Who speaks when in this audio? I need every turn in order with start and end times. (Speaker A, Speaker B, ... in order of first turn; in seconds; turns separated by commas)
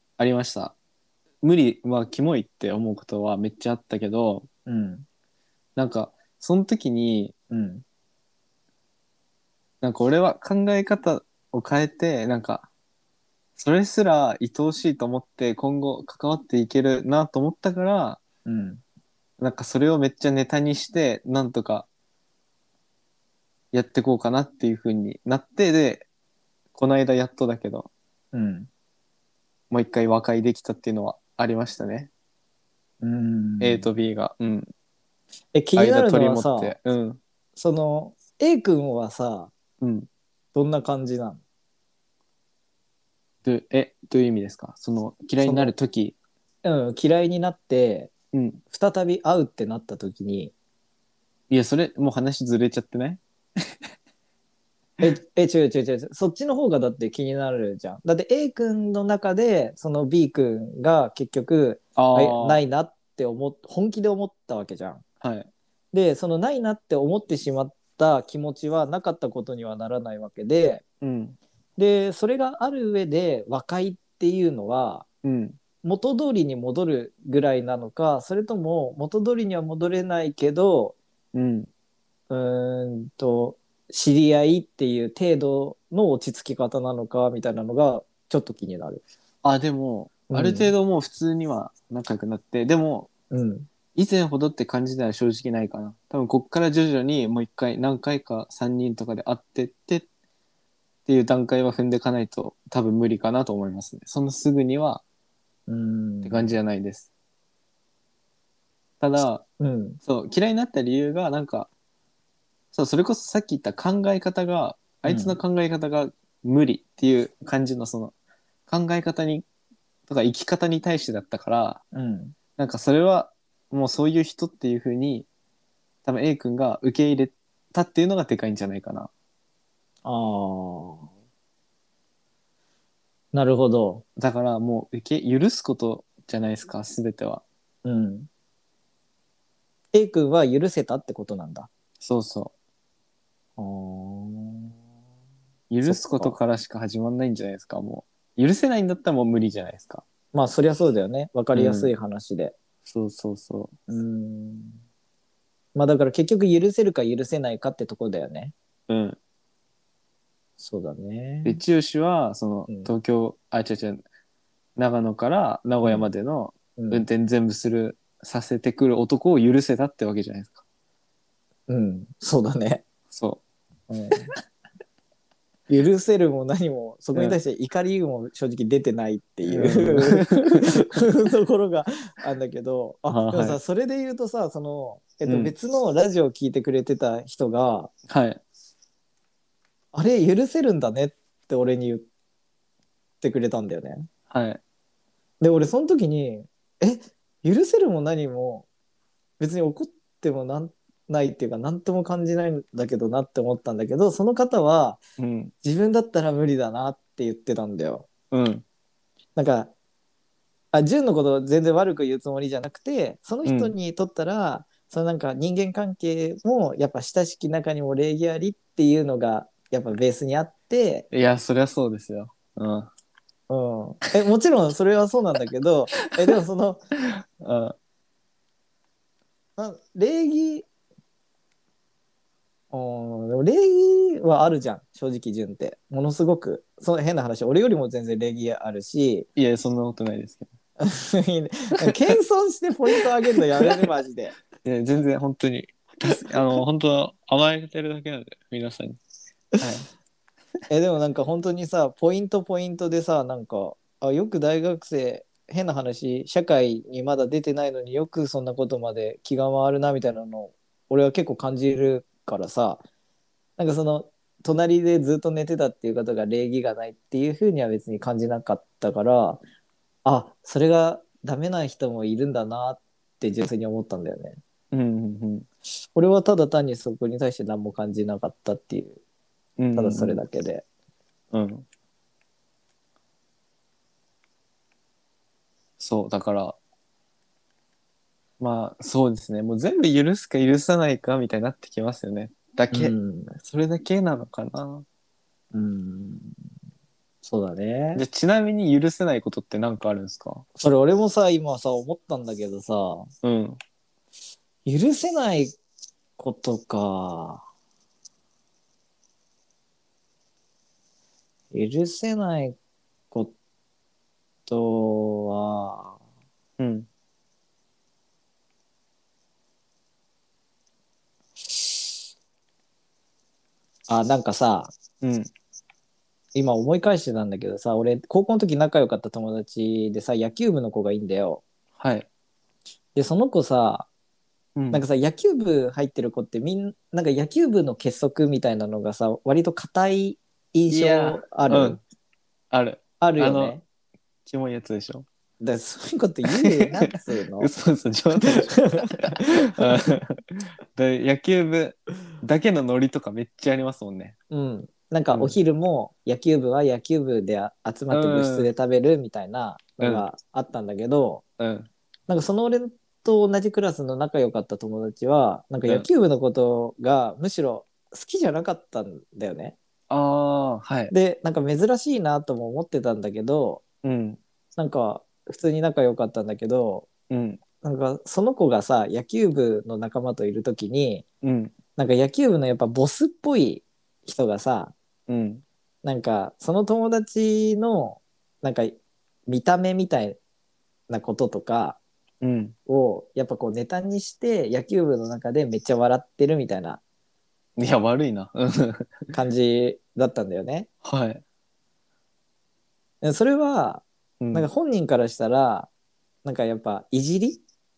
Speaker A: 0.2-0.7, Speaker A: 1.4-4.5, Speaker B: 4.7-5.0, Speaker A: 5.8-7.3, Speaker B: 7.5-7.8, Speaker A: 9.8-12.7, Speaker A: 13.6-18.2, Speaker B: 18.4-18.8, Speaker A: 19.4-21.9, Speaker A: 23.7-26.1, Speaker A: 26.7-27.9, Speaker B: 28.3-28.7, Speaker A: 29.7-32.1, Speaker B: 33.0-33.9, Speaker A: 33.6-34.7, Speaker B: 35.5-36.7, Speaker A: 35.8-37.2, Speaker B: 37.5-39.5, Speaker A: 39.8-40.1, Speaker B: 40.5-41.4, Speaker A: 43.4-46.1, Speaker B: 45.4-45.7, Speaker B: 46.6-48.1, Speaker A: 48.3-48.6, Speaker B: 48.7-50.5, Speaker A: 51.5-53.2, Speaker B: 55.0-65.0, Speaker A: 62.0-62.6, Speaker A: 65.2-65.5, Speaker B: 65.9-70.8, Speaker A: 71.0-71.4, Speaker B: 71.8-75.0, Speaker A: 75.2-75.6, Speaker B: 75.8-81.0, Speaker A: 81.3-81.7, Speaker B: 82.3-89.0, Speaker A: 89.4-93.1, Speaker B: 90.3-90.7, Speaker B: 93.3-93.7, Speaker A: 93.9-100.0, Speaker A: 101.0-105.0, Speaker B: 105.7-106.6, Speaker A: 106.2-107.1, Speaker A: 109.0-109.4, Speaker B: 109.6-110.0, Speaker A: 110.0-111.7, Speaker A: 112.7-118.1, Speaker B: 115.0-115.4, Speaker A: 118.7-119.5, Speaker A: 120.1-121.8, Speaker B: 121.9-122.3, Speaker A: 122.6-125.3, Speaker A: 126.0-129.1, Speaker B: 130.0-131.1, Speaker B: 133.3-134.0, Speaker A: 134.2-137.4, Speaker B: 137.8-138.3, Speaker B: 139.9-141.7, Speaker A: 142.0-142.5, Speaker B: 143.6-144.7, Speaker A: 145.7-150.0, Speaker B: 145.8-146.4, Speaker B: 150.3-152.5, Speaker A: 151.5-151.9, Speaker A: 152.8-153.7, Speaker B: 153.9-154.8, Speaker B: 155.7-158.5, Speaker A: 158.9-159.2, Speaker B: 160.6-161.6, Speaker A: 161.4-164.0, Speaker A: 164.8-170.6, Speaker B: 165.8-166.1, Speaker B: 166.8-167.1, Speaker B: 171.7-172.8, Speaker A: 173.1-173.4, Speaker B: 173.9-174.3, Speaker B: 175.7-187.9, Speaker A: 179.5-180.7, Speaker A: 183.1-183.6, Speaker A: 185.2-185.5, Speaker A: 188.1-188.4, Speaker B: 189.9-192.1, Speaker B: 193.2-194.1, Speaker A: 194.3-194.6, Speaker B: 195.4-198.7, Speaker B: 199.4-205.0, Speaker A: 205.2-205.5, Speaker B: 205.6-208.1, Speaker A: 208.3-208.6, Speaker B: 209.3-209.7, Speaker B: 210.7-221.1, Speaker A: 213.4-213.7, Speaker A: 221.1-222.9, Speaker B: 223.5-226.8, Speaker A: 227.4-227.7, Speaker B: 229.6-230.7, Speaker B: 232.7-239.3, Speaker A: 239.3-240.5, Speaker B: 240.8-244.3, Speaker A: 244.6-249.0, Speaker B: 246.0-246.3, Speaker A: 249.6-249.9, Speaker B: 250.7-262.8, Speaker B: 263.6-269.4, Speaker B: 270.0-274.4, Speaker A: 274.7-275.5, Speaker B: 275.9-279.0, Speaker A: 279.6-280.2, Speaker B: 279.7-280.6, Speaker A: 281.3-281.6, Speaker A: 285.8-286.6, Speaker A: 288.4-294.9, Speaker B: 292.7-293.4, Speaker B: 295.5-296.3, Speaker B: 297.2-298.0, Speaker A: 297.9-300.4, Speaker B: 300.6-303.1, Speaker A: 303.2-303.6, Speaker B: 304.6-305.6, Speaker B: 306.2-307.4, Speaker B: 311.5-312.6, Speaker B: 314.5-316.0, Speaker A: 316.6-316.9, Speaker B: 323.9-324.7, Speaker A: 325.0-325.3, Speaker B: 326.3-331.4, Speaker A: 331.8-332.1, Speaker B: 332.9-333.9, Speaker A: 334.6-334.8, Speaker B: 334.7-341.8, Speaker A: 340.7-341.8, Speaker A: 342.5-343.6, Speaker B: 343.0-343.6, Speaker A: 344.2-345.1, Speaker B: 345.4-347.5, Speaker A: 346.4-354.1, Speaker B: 348.2-349.9, Speaker B: 354.3-361.2, Speaker A: 355.1-355.4, Speaker A: 357.9-358.5, Speaker A: 359.8-360.0, Speaker A: 361.4-361.7, Speaker B: 362.1-369.6, Speaker A: 369.9-370.9, Speaker B: 370.9-373.6, Speaker A: 373.8-374.2, Speaker B: 374.6-376.9, Speaker A: 377.1-377.4, Speaker B: 377.6-381.0, Speaker A: 381.2-381.5, Speaker B: 381.8-384.7, Speaker A: 385.1-385.4, Speaker B: 385.8-390.2, Speaker B: 390.9-391.8, Speaker A: 392.2-392.5, Speaker B: 392.7-396.8, Speaker A: 397.6-399.1, Speaker B: 399.1-400.7, Speaker A: 400.8-401.2, Speaker B: 403.0-405.7, Speaker A: 404.2-404.5, Speaker B: 406.2-407.4